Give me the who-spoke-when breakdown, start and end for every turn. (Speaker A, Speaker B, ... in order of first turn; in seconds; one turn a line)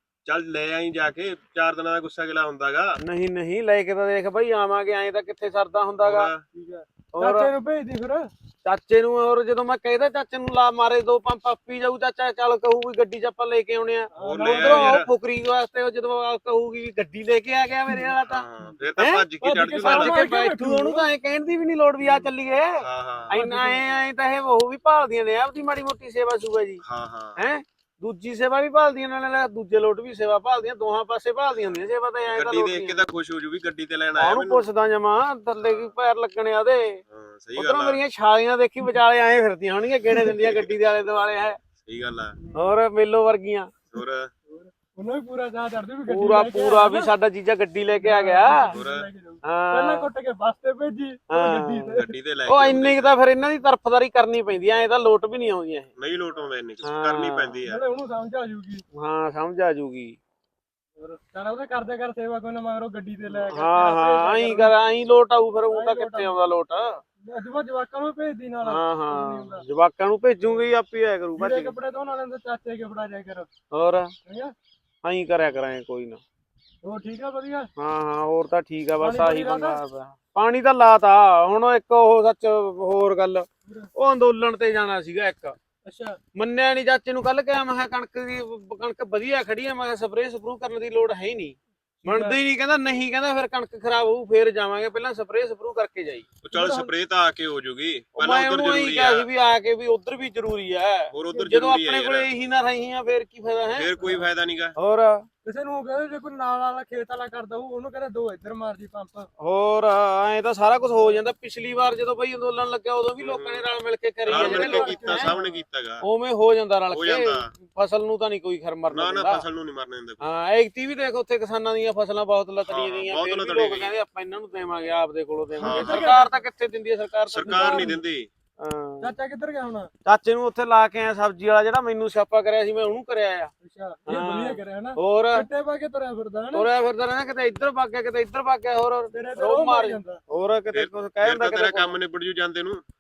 Speaker A: 0.3-2.9
Speaker B: 3.0-6.3
Speaker A: 6.0-6.5
Speaker C: 6.5-8.3
Speaker B: 7.1-7.5
Speaker B: 8.7-18.5
Speaker C: 14.1-15.0
Speaker A: 14.2-15.1
Speaker A: 18.3-20.2
Speaker B: 19.0-19.2
Speaker C: 19.4-21.1
Speaker B: 19.8-26.8
Speaker A: 22.8-23.4
Speaker C: 23.3-24.0
Speaker A: 26.8-27.4
Speaker B: 27.4-33.0
Speaker A: 32.3-34.6
Speaker B: 34.2-37.0
Speaker A: 35.6-35.9
Speaker A: 37.1-38.0
Speaker B: 37.6-41.6
Speaker A: 40.2-40.7
Speaker A: 41.8-42.4
Speaker B: 42.5-43.7
Speaker A: 43.9-44.3
Speaker C: 44.5-47.1
Speaker B: 46.1-48.8
Speaker C: 48.0-52.1
Speaker A: 48.7-49.1
Speaker B: 49.4-50.1
Speaker B: 51.3-55.9
Speaker A: 52.0-53.2
Speaker A: 56.0-57.8
Speaker B: 56.8-57.6
Speaker C: 57.6-58.8
Speaker B: 58.9-60.2
Speaker C: 61.0-64.8
Speaker B: 63.3-67.0
Speaker C: 65.7-66.3
Speaker C: 67.2-69.6
Speaker B: 68.6-71.8
Speaker C: 71.4-73.5
Speaker B: 73.7-74.1
Speaker C: 74.2-74.5
Speaker B: 75.0-76.2
Speaker C: 76.8-77.7
Speaker B: 77.8-85.6
Speaker C: 79.0-79.8
Speaker C: 85.8-86.2
Speaker B: 86.3-96.3
Speaker C: 92.0-92.4
Speaker A: 96.4-99.3
Speaker C: 96.5-96.9
Speaker B: 98.2-104.2
Speaker A: 101.1-102.3
Speaker A: 103.8-104.7
Speaker B: 104.8-105.3
Speaker C: 105.4-109.3
Speaker B: 109.4-115.3
Speaker A: 113.2-113.7
Speaker A: 114.3-116.0
Speaker C: 114.3-115.5
Speaker B: 116.0-119.4
Speaker A: 116.9-117.5
Speaker A: 118.9-120.2
Speaker B: 120.2-128.0
Speaker A: 122.7-123.9
Speaker A: 125.6-126.0
Speaker C: 125.6-126.3
Speaker A: 127.3-128.3
Speaker C: 127.5-128.0
Speaker B: 128.6-129.2
Speaker C: 129.0-129.9
Speaker B: 130.1-133.5
Speaker C: 133.6-136.7
Speaker B: 134.1-135.5
Speaker B: 136.5-141.9
Speaker C: 139.1-140.2
Speaker A: 140.7-142.8